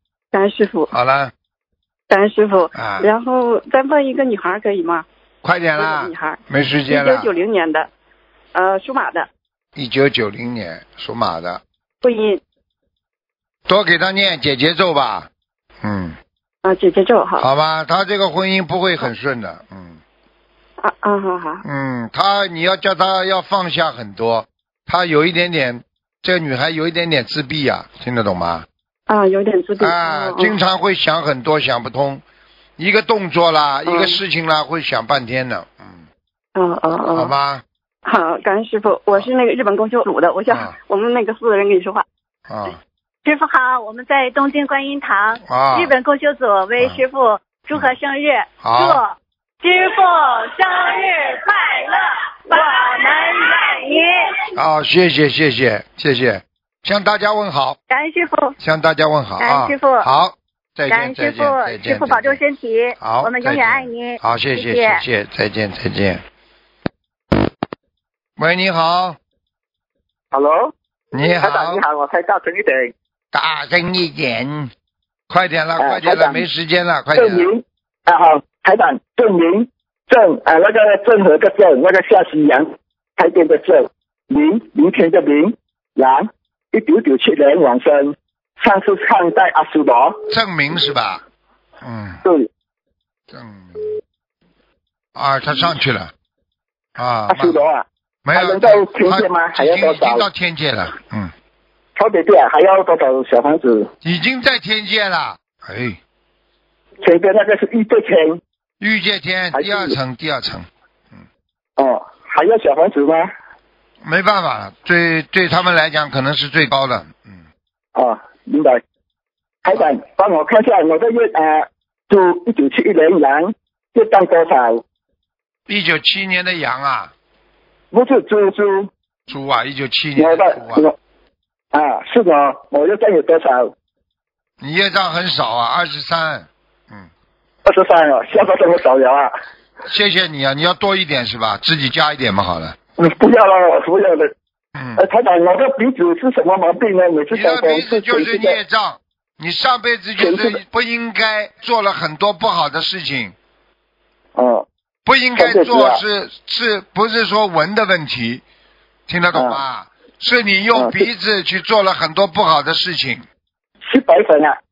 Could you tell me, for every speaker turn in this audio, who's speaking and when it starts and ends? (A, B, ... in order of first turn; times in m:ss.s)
0:00.3-0:00.9 A
0:00.9-0:01.3 B
0:02.1-0:05.0 A
0:02.7-0:03.1 B
0:05.4-0:07.3 B
0:05.8-0:07.9 A
0:08.5-0:09.3 A
0:09.8-0:11.6 B
0:12.0-0:12.4 A
0:13.7-0:15.3 B
0:15.8-0:16.2 B
0:16.6-0:17.5 A
0:17.4-0:20.0 B
0:20.8-0:21.6 A
0:21.6-0:28.7 B
0:29.1-0:30.6 A
0:29.8-0:32.2 B
0:32.8-0:36.0 B
0:33.8-0:34.2 A
0:36.5-0:37.3 A
0:37.1-0:37.6 B
0:38.0-0:42.0 A
0:40.5-0:40.7 B
0:42.5-0:42.8 B
0:43.2-0:54.5 C
0:45.4-0:45.9 B
0:48.6-0:49.0 B
0:54.6-0:57.8 B
0:57.9-0:58.6 C
0:58.6-1:02.4 B
0:59.4-1:00.1 C
1:00.9-1:05.0 C
1:03.0-1:06.2 B
1:08.4-1:09.2 B
1:10.3-1:12.9 D
1:11.1-1:11.8 B
1:13.3-1:14.7 B
1:15.3-1:17.5 B
1:15.8-1:16.4 D
1:17.1-1:30.2 D
1:30.3-1:31.2 B
1:31.8-1:32.2 B
1:33.3-1:33.9 B
1:35.2-1:36.1 B
1:37.0-1:37.6 B
1:37.3-1:40.2 D
1:38.2-1:41.3 B
1:42.0-1:43.9 D
1:44.0-1:46.0 B
1:47.0-1:48.4 D
1:48.8-1:51.2 B
1:49.5-1:50.0 D
1:51.8-1:53.3 D
1:54.0-1:57.4 B
1:57.9-1:58.8 D
1:59.6-2:04.8 D
2:05.7-2:07.1 B
2:07.9-2:08.9 D
2:09.3-2:10.9 B
2:10.2-2:10.9 D
2:11.7-2:13.7 D
2:14.6-2:17.1 B
2:17.6-2:19.3 D
2:19.8-2:22.8 B
2:23.0-2:24.3 D
2:24.7-2:25.0 B
2:25.0-2:28.6 D
2:27.3-2:33.3 B
2:30.2-2:30.6 D
2:34.4-2:34.6 D
2:35.0-2:38.4 B
2:35.4-2:36.0 D
2:39.1-2:43.2 B
2:39.3-2:39.6 D
2:40.7-2:41.1 D
2:43.9-2:44.6 D